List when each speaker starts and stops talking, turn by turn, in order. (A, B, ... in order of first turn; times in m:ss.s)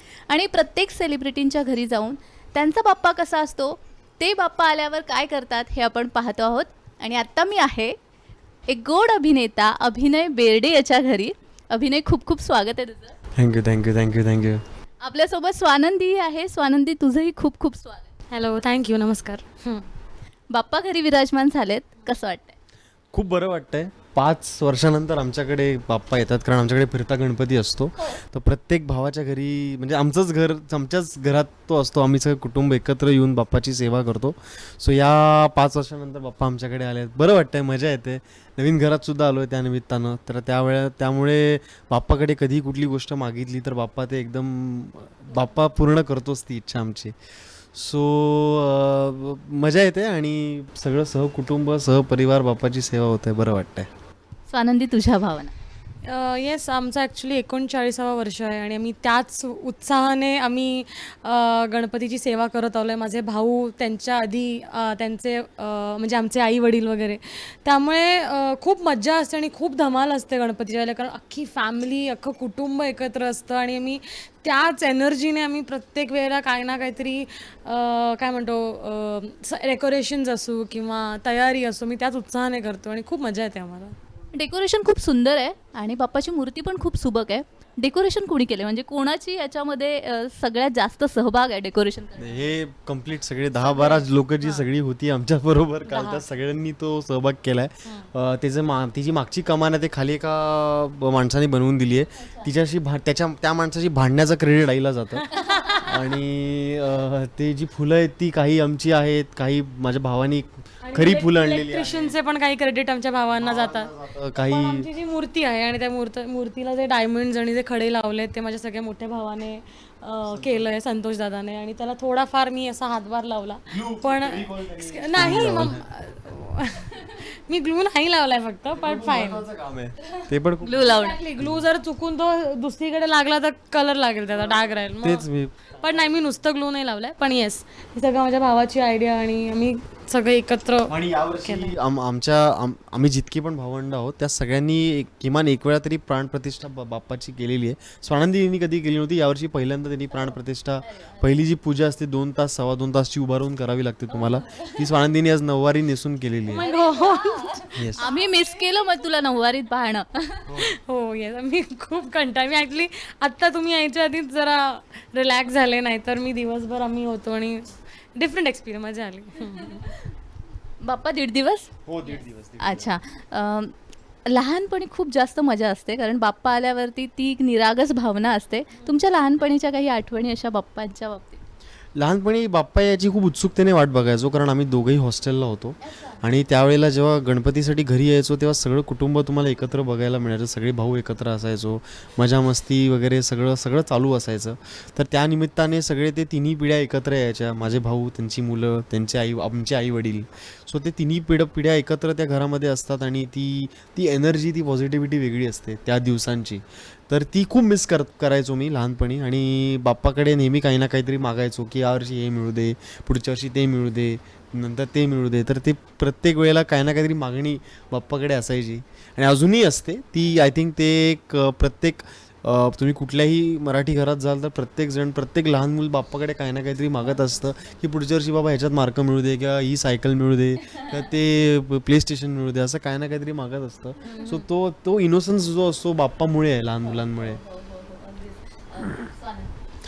0:00.3-0:07.9 A
0:08.7-0:13.2 A
0:13.4-0:14.6 B
0:15.0-0:18.1 A
0:18.3-0:19.8 C
0:20.5-0:22.5 A
0:23.1-0:47.1 B
0:47.7-0:53.9 B
0:54.5-0:55.5 A
0:56.0-1:24.0 C
1:24.3-1:32.5 A
1:32.2-1:45.3 B
1:33.7-1:34.6 C
1:35.9-1:36.2 C
1:42.2-1:42.5 A
1:45.2-1:45.8 C
1:45.3-1:45.9 A
1:45.8-1:52.1 B
1:50.8-1:53.9 C
1:53.4-1:54.9 B
1:54.5-2:09.5 C
2:00.2-2:00.6 B
2:03.7-2:05.9 B
2:08.7-2:11.6 B
2:10.6-2:11.2 A
2:10.8-2:21.7 C
2:15.0-2:15.8 B
2:20.9-2:36.7 B
2:30.8-2:31.4 A
2:34.1-2:34.8 A
2:36.5-2:37.7 C
2:36.5-2:40.5 A
2:37.7-2:38.0 B
2:40.5-2:40.7 B
2:40.5-2:49.9 C
2:49.5-2:50.0 A
2:50.8-2:51.7 A
2:51.8-2:52.9 B
2:52.6-2:53.7 A
2:54.3-3:01.4 A
3:01.9-3:57.4 B
3:50.6-3:51.0 A
3:54.0-3:54.3 A
3:54.0-3:54.4 C
3:57.0-3:59.5 A